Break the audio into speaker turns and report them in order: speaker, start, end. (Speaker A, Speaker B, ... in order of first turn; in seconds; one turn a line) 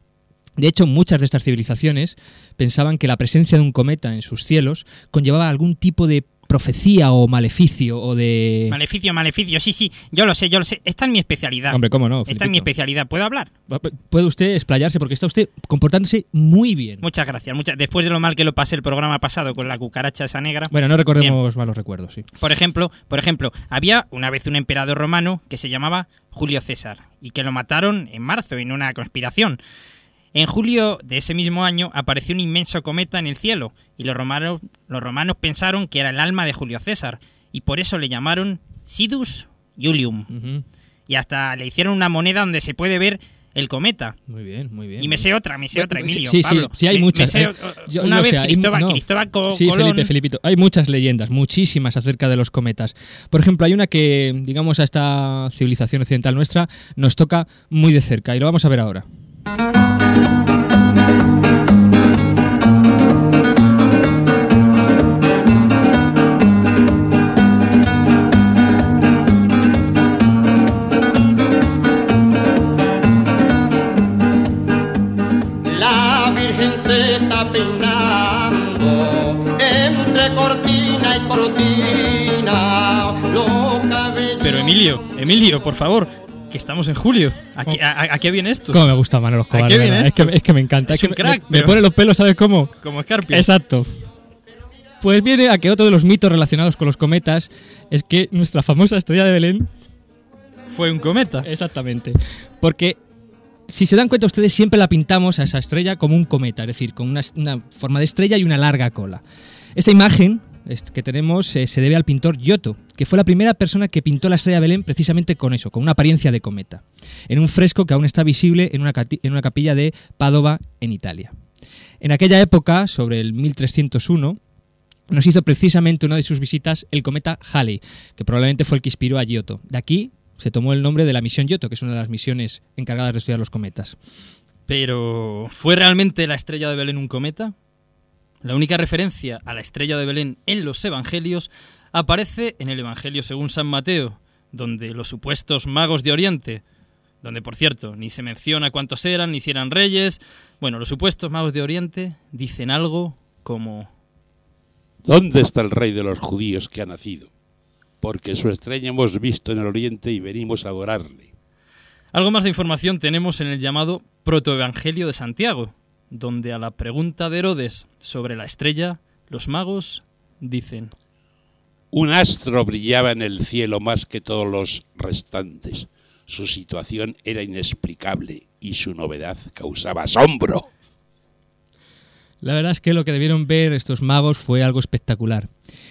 Speaker A: 0.6-8.8
Speaker B: 8.7-13.5
Speaker A: 11.7-12.7
Speaker A: 13.7-17.0
Speaker B: 17.0-21.4
Speaker A: 20.7-22.3
Speaker B: 22.4-29.6
Speaker B: 30.3-40.3
Speaker A: 40.3-40.6
Speaker B: 41.1-44.2
Speaker A: 44.3-59.1
Speaker B: 45.0-50.1
Speaker C: 75.7-84.8
Speaker D: 84.4-88.8
Speaker A: 88.7-92.7
Speaker D: 89.5-90.3
Speaker D: 90.9-91.8
Speaker D: 92.8-93.5
Speaker A: 93.3-93.9
Speaker A: 95.0-99.7
Speaker D: 100.7-101.5
Speaker A: 101.4-103.0
Speaker A: 103.7-109.2
Speaker A: 109.8-121.3
Speaker A: 122.0-124.4
Speaker A: 125.1-134.0
Speaker D: 134.7-137.5
Speaker D: 138.4-146.6
Speaker D: 147.2-153.9
Speaker E: 155.1-157.3
Speaker E: 158.0-161.3
Speaker D: 162.1-170.9
Speaker E: 171.9-180.7
Speaker A: 182.4-185.5